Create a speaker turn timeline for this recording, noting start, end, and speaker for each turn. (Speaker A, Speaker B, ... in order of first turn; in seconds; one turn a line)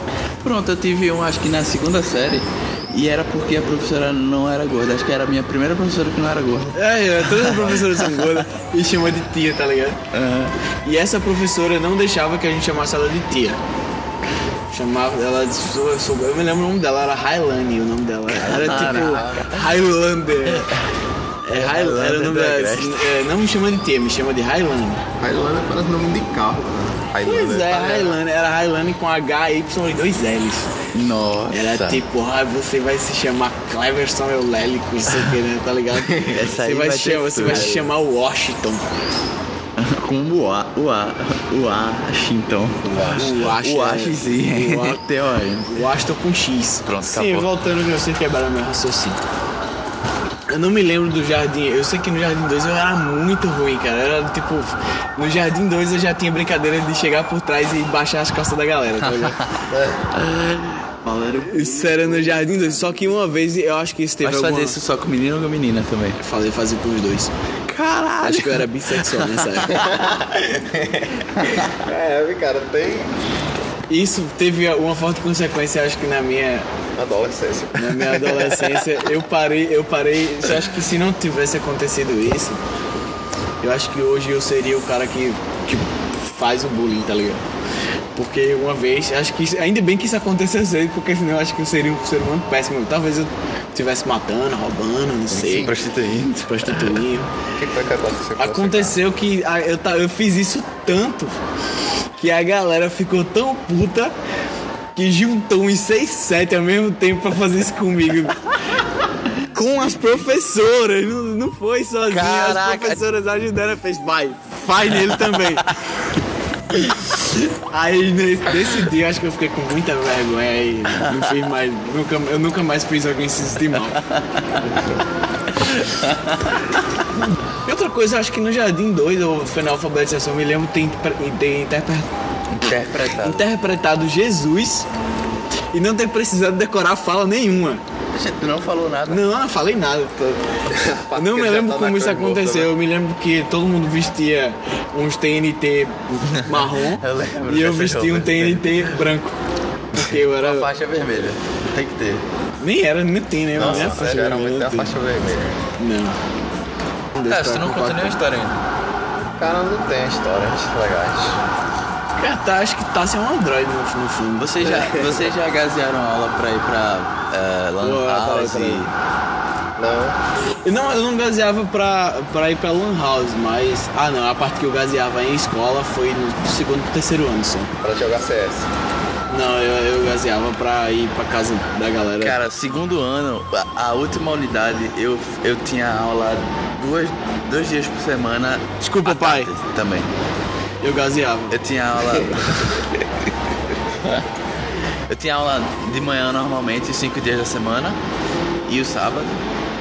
Speaker A: 0.4-8.4
Speaker B: 6.7-10.0
Speaker A: 10.1-10.5
Speaker B: 10.8-13.6
Speaker B: 14.7-20.7
Speaker A: 18.3-19.9
Speaker C: 18.6-19.3
Speaker A: 20.4-20.8
Speaker B: 21.4-25.0
Speaker A: 21.5-23.0
Speaker C: 25.2-28.2
Speaker B: 27.2-30.7
Speaker A: 30.9-32.0
Speaker B: 31.5-38.9
Speaker A: 35.1-35.4
Speaker A: 36.1-37.9
Speaker C: 37.5-37.8
Speaker A: 39.8-46.0
Speaker C: 42.8-43.3
Speaker B: 43.1-45.0
Speaker B: 45.7-49.2
Speaker A: 46.9-47.5
Speaker B: 50.5-59.4
Speaker A: 59.0-62.3
Speaker C: 59.7-60.1
Speaker B: 61.4-64.8
Speaker A: 64.2-66.2
Speaker B: 66.2-67.3
Speaker A: 67.7-70.4
Speaker B: 68.2-69.8
Speaker C: 69.7-73.1
Speaker B: 73.9-76.7
Speaker C: 77.0-78.7
Speaker B: 77.7-82.6
Speaker B: 83.6-87.4
Speaker B: 88.1-95.7
Speaker C: 95.3-95.7
Speaker A: 95.5-97.0
Speaker B: 96.4-97.3
Speaker C: 97.5-99.0
Speaker B: 98.4-101.4
Speaker B: 102.2-104.1
Speaker B: 104.9-108.8
Speaker B: 109.5-115.8
Speaker A: 112.0-113.0
Speaker A: 115.1-115.4
Speaker B: 116.7-124.0
Speaker A: 120.9-121.3
Speaker A: 123.9-124.7
Speaker A: 125.5-126.6
Speaker B: 127.5-132.1
Speaker A: 132.5-133.5
Speaker B: 133.1-134.9
Speaker B: 135.7-137.8
Speaker A: 138.1-139.2
Speaker B: 139.1-140.2
Speaker C: 140.2-142.7
Speaker B: 141.1-149.3
Speaker A: 146.2-149.0
Speaker B: 149.9-150.7
Speaker A: 149.9-152.2
Speaker B: 152.6-154.9
Speaker C: 153.5-155.6
Speaker A: 153.6-154.4
Speaker B: 155.8-156.2
Speaker B: 157.1-158.2
Speaker A: 157.2-158.6
Speaker C: 159.4-161.4
Speaker B: 162.1-165.1
Speaker A: 164.4-168.9
Speaker B: 167.8-168.9
Speaker C: 169.8-170.2
Speaker B: 170.6-177.7
Speaker C: 177.8-178.7
Speaker B: 179.3-182.3
Speaker A: 182.2-190.1
Speaker B: 188.8-189.5
Speaker B: 190.8-191.6
Speaker A: 191.5-192.9
Speaker A: 195.1-198.0
Speaker A: 198.7-199.4